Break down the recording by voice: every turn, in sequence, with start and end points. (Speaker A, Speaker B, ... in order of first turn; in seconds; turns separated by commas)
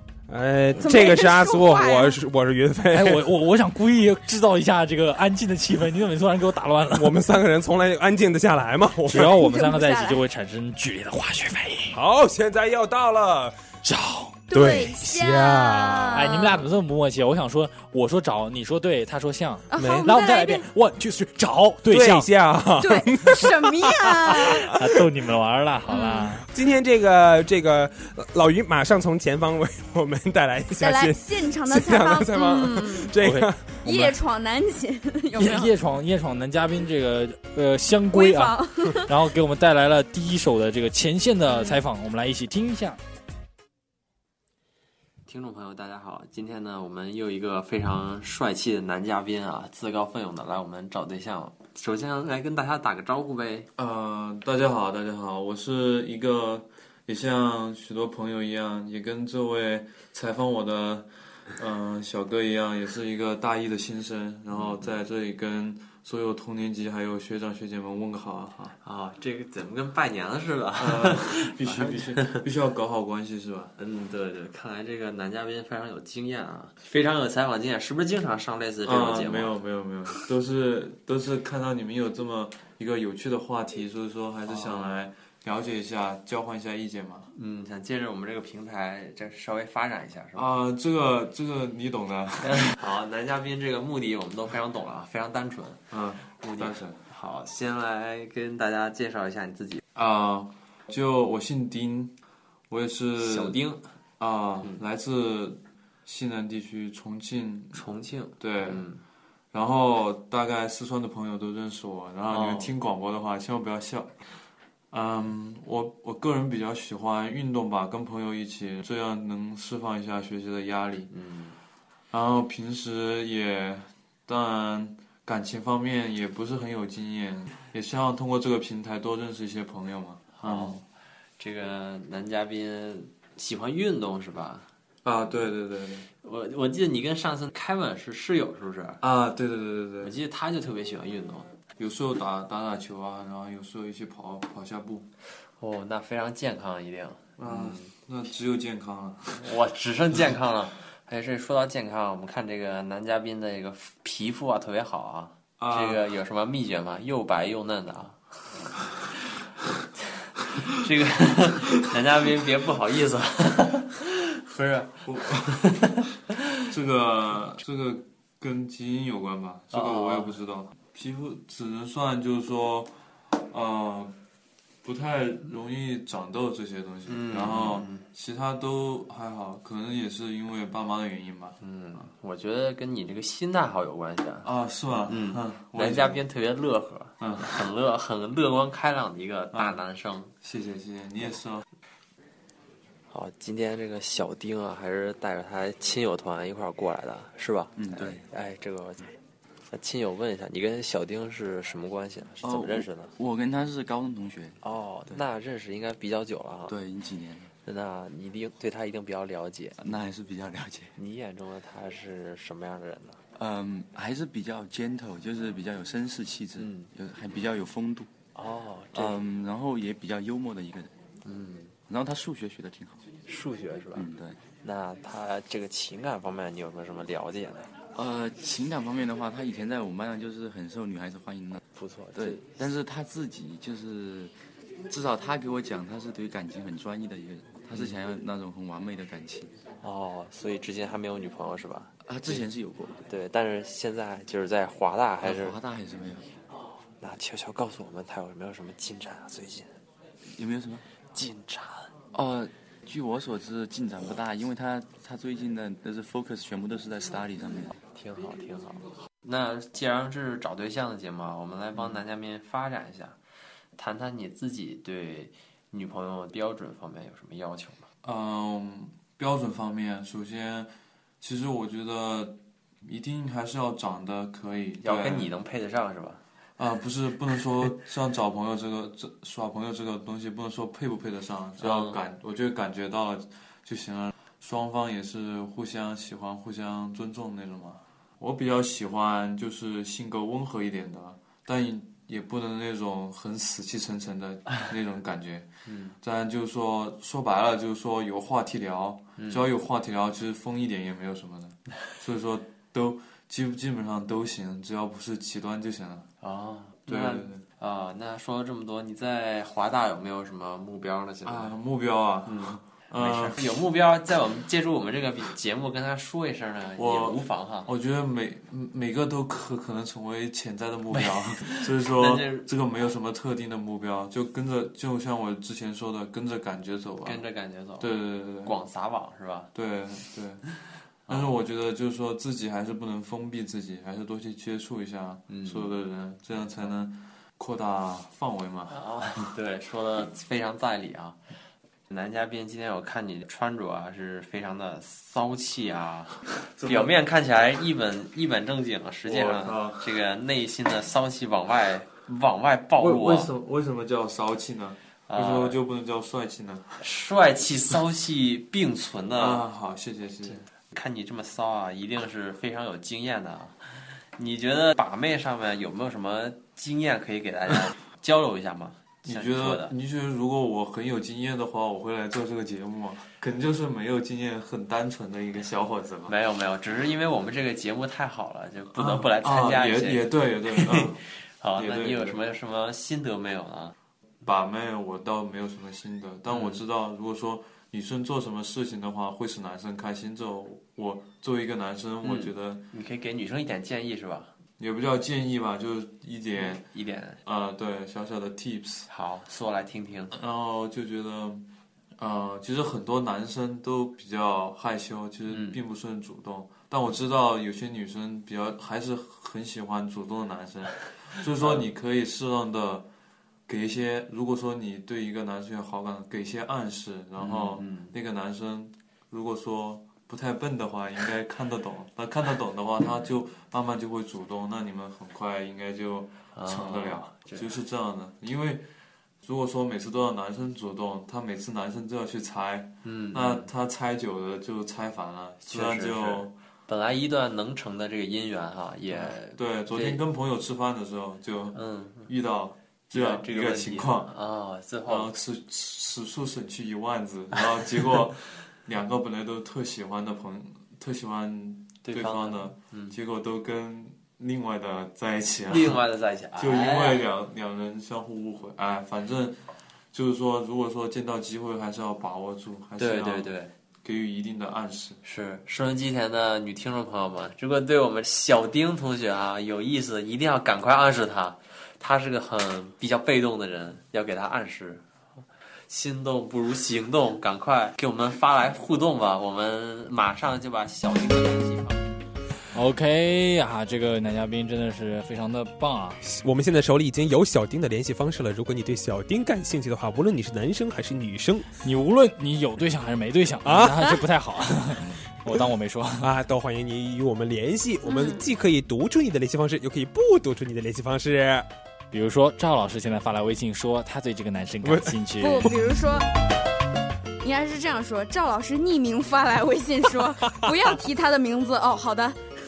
Speaker A: 0.3-3.3, Speaker B: 0.8-2.2, Speaker C: 2.9-7.2, Speaker A: 7.0-9.4, Speaker C: 9.1-12.0, Speaker B: 9.2-10.2, Speaker A: 11.9-13.6, Speaker C: 13.8-14.4, Speaker B: 14.5-16.6, Speaker A: 14.5-16.3, Speaker C: 16.1-22.3, Speaker B: 19.7-20.6, Speaker A: 19.8-20.1, Speaker A: 21.9-24.6, Speaker B: 22.8-24.7, Speaker C: 24.7-26.4, Speaker B: 25.9-26.4, Speaker A: 26.5-33.8, Speaker B: 30.8-33.1, Speaker C: 33.2-34.1, Speaker B: 33.9-35.7, Speaker C: 35.4-43.0, Speaker B: 38.1-39.1, Speaker B: 41.5-41.8, Speaker D: 45.3-53.7, Speaker E: 53.8-68.8, Speaker D: 64.5-65.0, Speaker D: 68.8-72.5, Speaker E: 70.8-73.7, Speaker D: 73.8-79.6, Speaker E: 78.8-87.3, Speaker D: 84.5-85.1, Speaker D: 87.3-90.5, Speaker E: 90.4-92.7, Speaker D: 92.4-99.8, Speaker E: 95.9-97.0, Speaker E: 100.0-102.1, Speaker E: 102.7-103.6, Speaker D: 103.2-103.9, Speaker E: 104.2-107.8, Speaker D: 107.7-109.0, Speaker E: 108.4-108.9, Speaker E: 109.5-114.2, Speaker D: 112.3-112.7, Speaker E: 114.9-121.1, Speaker D: 121.1-121.6, Speaker E: 122.1-130.8, Speaker D: 130.3-130.8, Speaker D: 131.4-134.7, Speaker E: 135.0-136.1, Speaker D: 136.2-139.0, Speaker E: 139.0-140.2, Speaker D: 140.0-141.6, Speaker E: 141.8-145.1, Speaker D: 145.6-147.9, Speaker E: 147.4-149.5, Speaker D: 149.3-158.2, Speaker E: 155.6-156.1, Speaker D: 160.6-165.0, Speaker E: 165.1-165.7, Speaker D: 165.6-165.9, Speaker E: 166.7-174.2, Speaker D: 169.7-170.4, Speaker E: 174.8-181.6, Speaker D: 177.1-178.1, Speaker D: 181.6-184.5, Speaker E: 184.4-186.2, Speaker D: 185.0-190.3, Speaker E: 187.2-187.6, Speaker E: 189.5-189.8, Speaker E: 190.4-191.7, Speaker D: 193.1-199.1, Speaker F: 197.8-198.2, Speaker D: 199.7-203.1, Speaker F: 202.4-205.2, Speaker D: 204.6-206.8, Speaker F: 206.7-207.5, Speaker D: 207.7-209.8, Speaker F: 209.8-210.9, Speaker D: 211.0-213.2, Speaker F: 213.3-218.1, Speaker D: 216.6-216.9, Speaker D: 218.4-219.2, Speaker F: 218.9-220.9, Speaker D: 221.2-221.7, Speaker F: 221.9-223.0, Speaker D: 223.3-224.1, Speaker F: 223.9-224.4, Speaker D: 224.6-227.7, Speaker F: 227.9-231.6, Speaker D: 231.8-232.5, Speaker F: 232.2-234.3, Speaker F: 234.9-239.5, Speaker D: 237.7-238.0, Speaker D: 239.8-242.5, Speaker F: 242.0-243.0, Speaker D: 243.1-245.6, Speaker F: 245.2-246.3, Speaker D: 246.5-249.7, Speaker F: 250.3-250.8, Speaker D: 251.1-251.9, Speaker F: 252.1-257.7, Speaker D: 257.9-263.2, Speaker D: 263.8-267.9, Speaker E: 268.0-275.3, Speaker D: 274.8-276.2, Speaker E: 276.6-295.5, Speaker D: 281.6-282.0, Speaker D: 295.7-296.0, Speaker E: 296.0-306.1, Speaker D: 299.2-299.5, Speaker D: 306.2-311.5, Speaker E: 306.9-307.4, Speaker E: 311.2-313.5, Speaker D: 312.2-317.7, Speaker E: 316.8-327.2, Speaker D: 320.9-322.5, Speaker D: 327.0-329.5, Speaker E: 327.8-328.6, Speaker E: 329.5-330.4, Speaker D: 331.1-331.4, Speaker E: 331.1-338.8, Speaker D: 335.3-335.7, Speaker D: 336.3-336.7, Speaker D: 338.7-341.2, Speaker D: 341.9-353.3, Speaker E: 346.6-347.0, Speaker E: 349.0-349.9, Speaker E: 352.8-356.8, Speaker D: 355.1-355.6, Speaker D: 356.8-359.4, Speaker E: 359.2-360.4, Speaker D: 360.2-369.7, Speaker E: 369.0-376.2, Speaker D: 376.1-383.8, Speaker E: 378.7-381.0, Speaker E: 381.6-382.2, Speaker E: 384.2-392.7, Speaker D: 386.3-386.6, Speaker D: 392.0-394.3, Speaker E: 394.6-396.7, Speaker D: 396.3-397.2, Speaker E: 397.2-398.9, Speaker D: 398.9-400.1, Speaker E: 400.1-401.5, Speaker E: 402.0-412.9, Speaker D: 405.3-405.6, Speaker D: 411.2-411.7, Speaker E: 413.5-428.7, Speaker D: 417.2-418.0, Speaker D: 426.3-427.6, Speaker E: 429.2-436.3, Speaker D: 432.8-433.5, Speaker D: 435.4-440.0, Speaker E: 438.9-444.2, Speaker D: 441.5-442.1, Speaker D: 442.9-445.1, Speaker E: 444.9-455.8, Speaker D: 451.8-453.0, Speaker D: 455.5-457.1, Speaker E: 456.4-459.4, Speaker E: 459.9-465.0, Speaker D: 462.8-463.5, Speaker D: 465.0-474.8, Speaker D: 475.7-481.8, Speaker C: 482.5-486.0, Speaker A: 486.0-491.5, Speaker C: 491.6-496.1, Speaker A: 493.4-493.9, Speaker A: 496.0-501.5, Speaker B: 497.9-498.2, Speaker C: 501.9-505.5, Speaker A: 504.6-504.9, Speaker B: 505.2-506.1, Speaker B: 507.2-512.2